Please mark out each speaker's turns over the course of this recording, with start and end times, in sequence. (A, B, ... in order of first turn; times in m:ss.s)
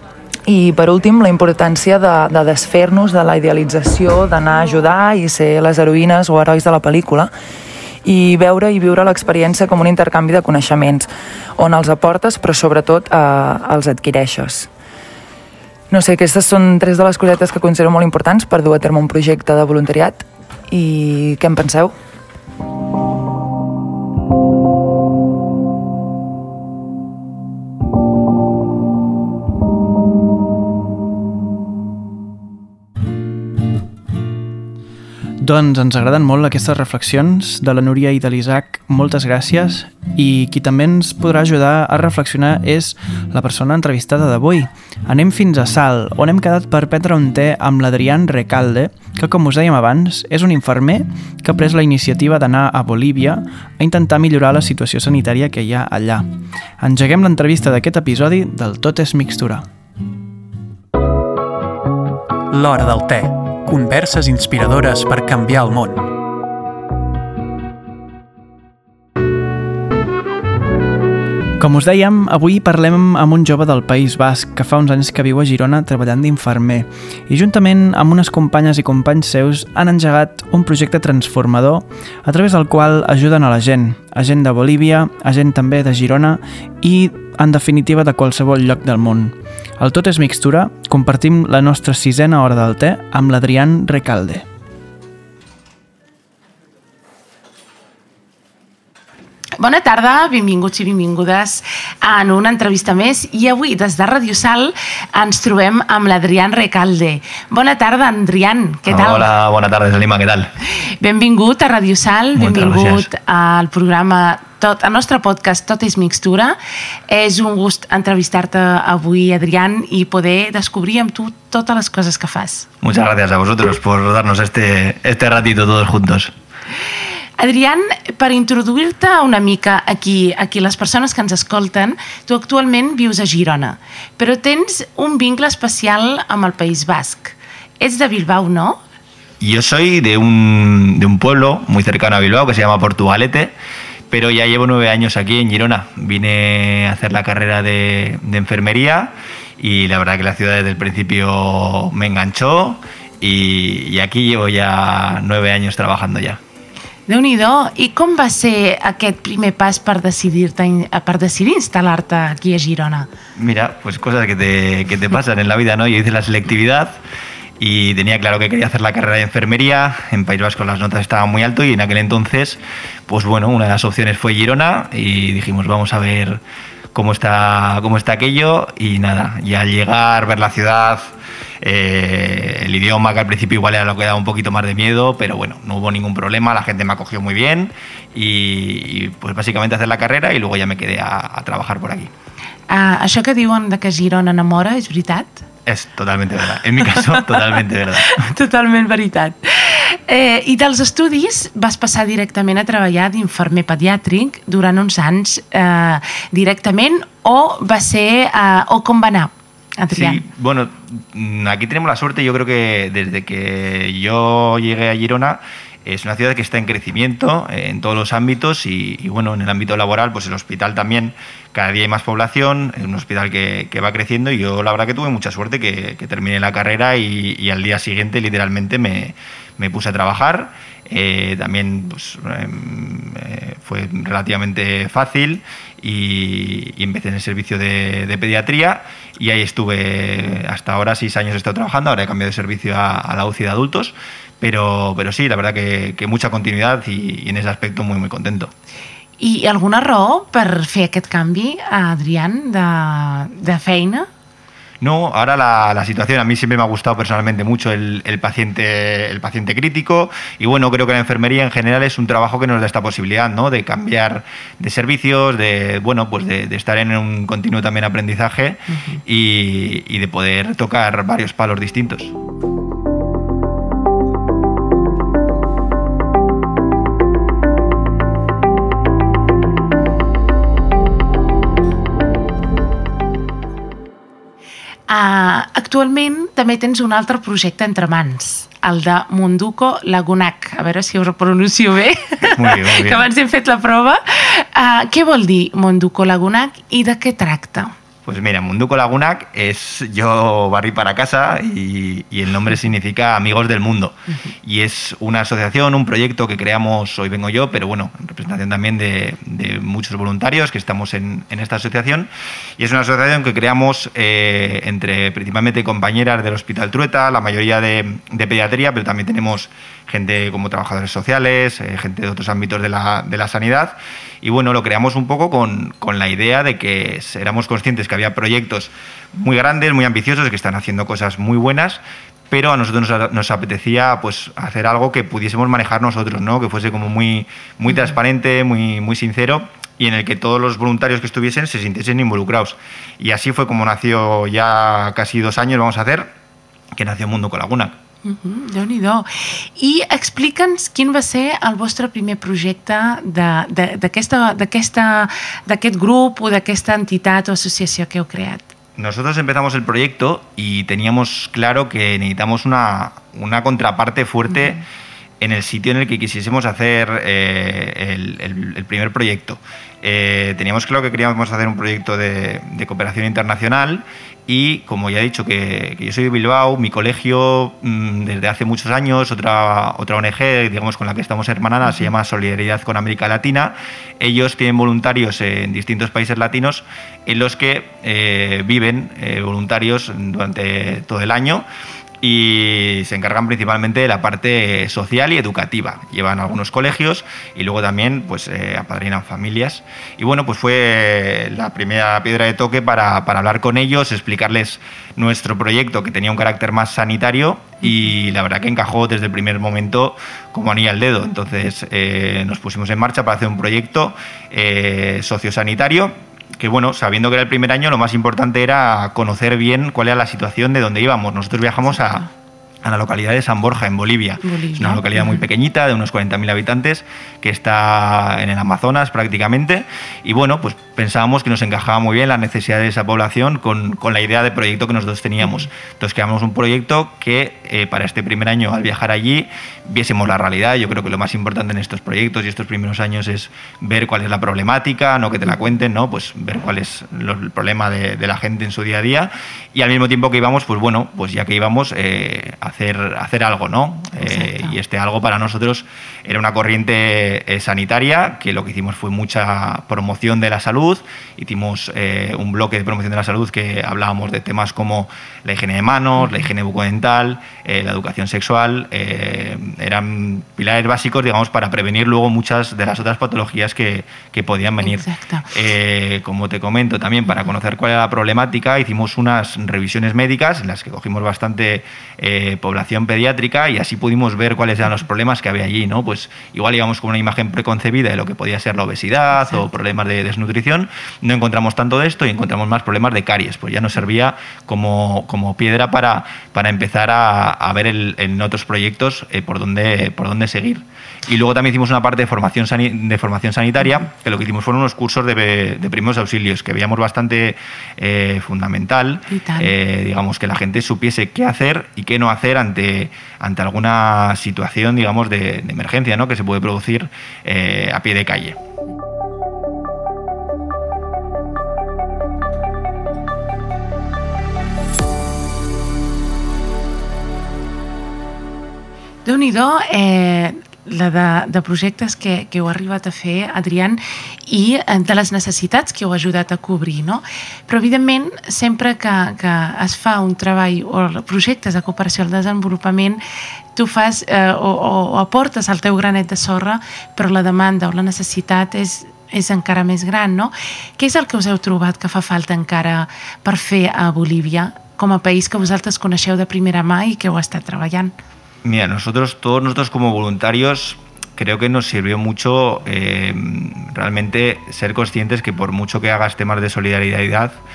0:00.5-0:07.3 A
0:08.0-0:14.7 A
0:15.9-0:21.9 A
0:35.4-0:56.3 B
0:56.8-0:59.6 B
1:02.5-1:06.0 C
1:11.6-1:34.4 B
1:39.6-1:49.3 D
1:48.9-1:50.5 E
1:50.8-1:56.6 D
1:52.3-1:53.1 E
1:57.1-2:02.7 D
2:02.8-2:06.3 E
2:07.4-2:18.8 D
2:19.4-2:23.5 E
2:24.1-2:36.4 E
2:37.1-2:43.1 D
2:43.4-2:47.0 E
2:47.6-2:56.4 E
2:56.9-3:12.1 E
3:12.7-3:15.4 D
3:15.6-3:18.3 E
3:18.1-3:30.2 D
3:29.9-4:08.5 E
4:09.2-4:14.1 D
4:14.8-4:32.1 E
4:28.7-4:29.0 D
4:44.9-4:57.7 D
4:52.3-4:53.0 E
4:58.0-5:46.1 E
5:46.7-5:47.8 E
5:48.0-5:58.5 D
5:58.8-6:04.6 E
6:05.2-6:31.4 E
6:32.0-7:02.1 E
7:02.6-8:38.4 E
7:04.2-7:05.2 D
7:34.0-7:34.5 D
7:46.0-7:46.3 D
7:54.6-7:55.3 D
8:29.1-8:29.5 D
8:49.0-9:03.0 D
9:03.5-9:17.9 D
9:18.4-9:27.4 E